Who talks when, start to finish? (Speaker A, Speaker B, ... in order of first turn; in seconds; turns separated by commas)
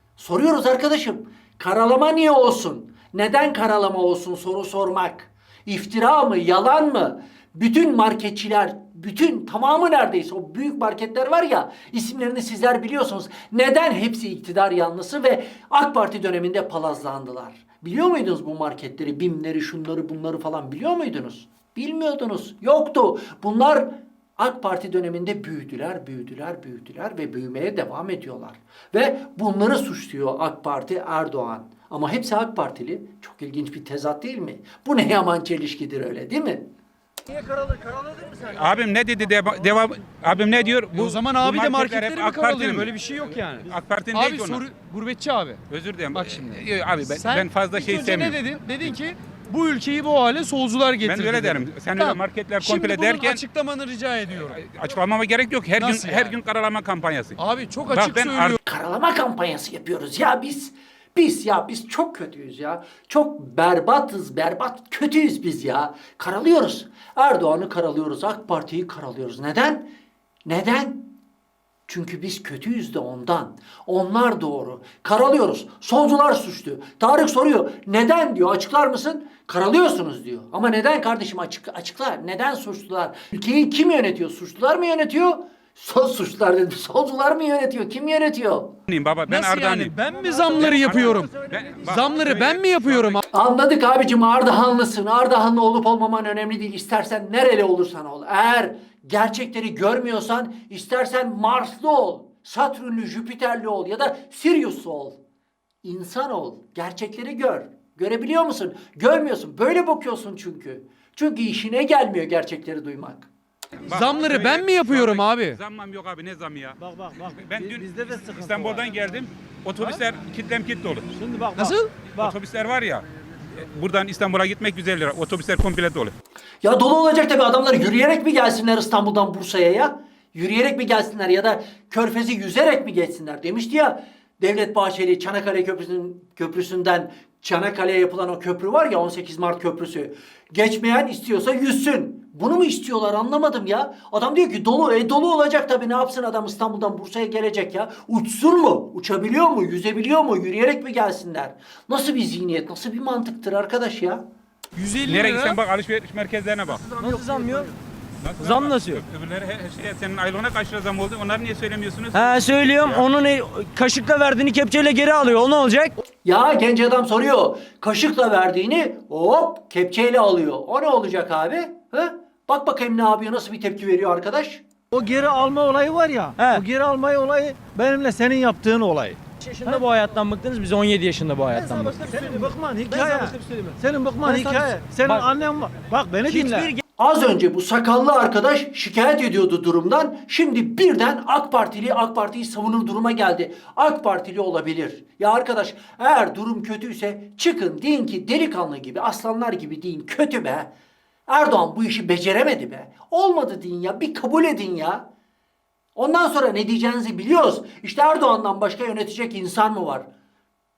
Speaker A: 0.2-36.7, Speaker B: 38.5-42.9, Speaker C: 40.9-45.6, Speaker B: 43.7-44.6, Speaker B: 45.7-48.4, Speaker C: 46.1-54.6, Speaker B: 51.0-53.4, Speaker B: 54.6-57.4, Speaker C: 55.8-56.4, Speaker C: 57.4-58.6, Speaker B: 57.9-58.6, Speaker A: 58.6-69.9, Speaker A: 70.5-71.1, Speaker A: 71.9-88.7, Speaker B: 88.9-89.9, Speaker C: 89.3-93.2, Speaker B: 90.6-93.2, Speaker A: 93.3-105.2, Speaker A: 105.8-113.3, Speaker C: 113.8-115.6, Speaker B: 113.9-116.8, Speaker D: 116.8-119.0, Speaker B: 117.5-121.0, Speaker D: 121.2-122.4, Speaker C: 121.5-122.0, Speaker B: 122.2-126.1, Speaker A: 126.6-154.2, Speaker C: 154.8-155.6, Speaker B: 155.0-156.8, Speaker E: 157.0-157.7, Speaker B: 158.2-163.0, Speaker E: 158.4-159.0, Speaker E: 162.1-165.9, Speaker A: 166.2-174.6, Speaker D: 174.9-179.8, Speaker E: 176.4-176.6, Speaker E: 179.4-185.3, Speaker D: 181.5-186.7, Speaker E: 186.2-186.8, Speaker A: 187.0-200.7, Speaker A: 201.3-205.1, Speaker A: 205.9-210.1